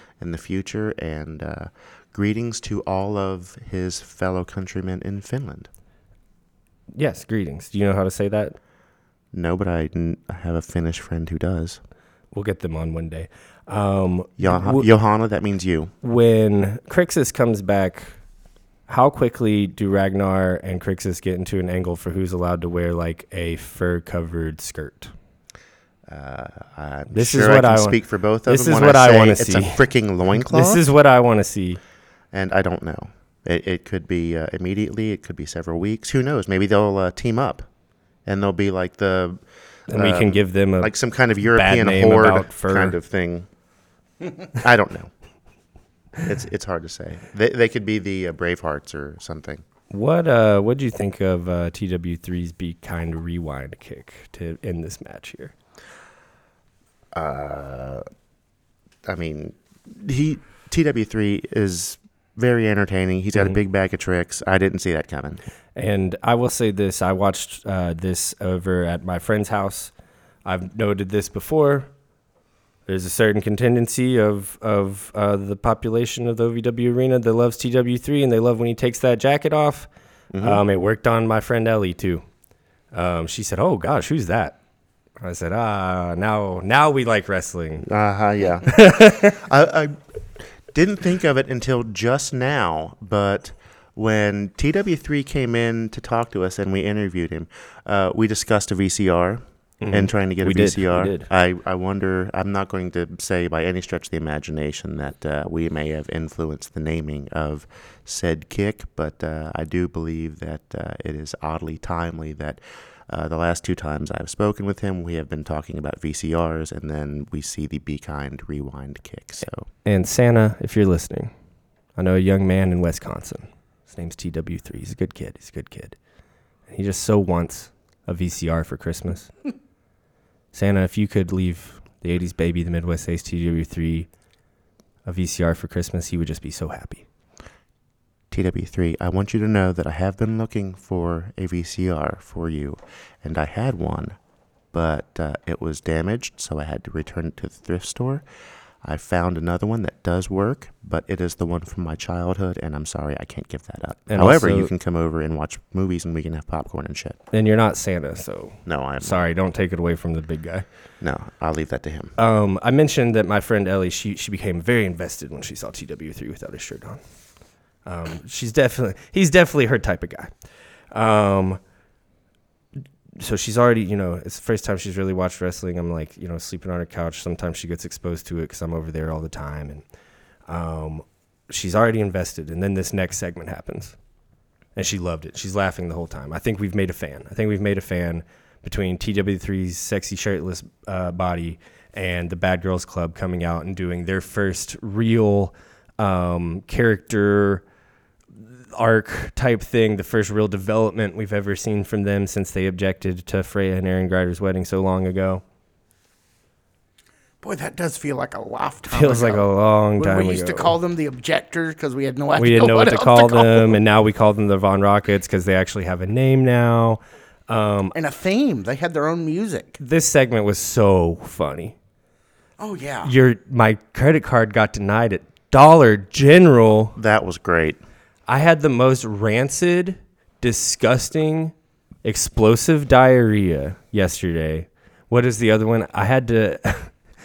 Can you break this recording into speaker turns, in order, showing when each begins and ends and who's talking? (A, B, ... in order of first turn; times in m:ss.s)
0:00.2-0:05.7 A
0:06.9-0:08.6 B
0:09.3-0:11.8 A
0:12.3-0:14.9 B
0:14.4-0:15.9 A
0:16.0-0:18.2 B
0:18.9-0:25.1 B
0:26.1-0:30.8 A
0:27.1-0:31.8 B
0:32.3-0:37.7 A
0:38.2-0:43.5 A
0:39.9-0:40.9 B
0:41.4-0:43.0 B
0:44.6-0:45.1 A
0:46.2-0:49.6 A
0:49.9-0:55.5 B
0:57.1-0:58.0 A
0:59.0-1:05.4 A
1:05.8-1:09.9 B
1:10.4-1:11.9 B
1:12.9-1:19.9 B
1:20.3-1:20.6 A
1:20.4-1:22.2 B
1:22.9-1:24.6 B
1:25.2-1:27.9 B
1:27.8-1:59.7 A
1:28.7-1:29.4 B
1:39.8-1:41.3 B
1:59.8-2:01.3 B
2:01.9-2:06.0 B
2:06.7-2:09.3 B
2:10.5-2:14.1 B
2:15.0-2:17.0 B
2:18.3-2:24.2 A
2:24.7-2:28.2 A
2:28.8-2:37.2 A
2:34.1-2:34.7 B
2:37.3-2:40.6 B
2:38.6-2:39.2 A
2:41.0-2:42.2 A
2:42.2-2:47.0 B
2:47.8-2:50.3 B
2:50.9-2:51.6 B
2:53.1-2:59.8 B
3:00.5-3:04.0 B
3:04.8-3:17.6 B
3:18.4-3:25.4 B
3:27.4-3:33.8 C
3:28.9-3:30.7 B
3:32.4-3:37.9 B
3:37.9-3:39.8 C
3:39.8-3:41.8 B
3:42.6-3:43.1 C
3:43.0-3:47.0 B
3:47.0-3:47.8 A
3:48.3-3:57.0 B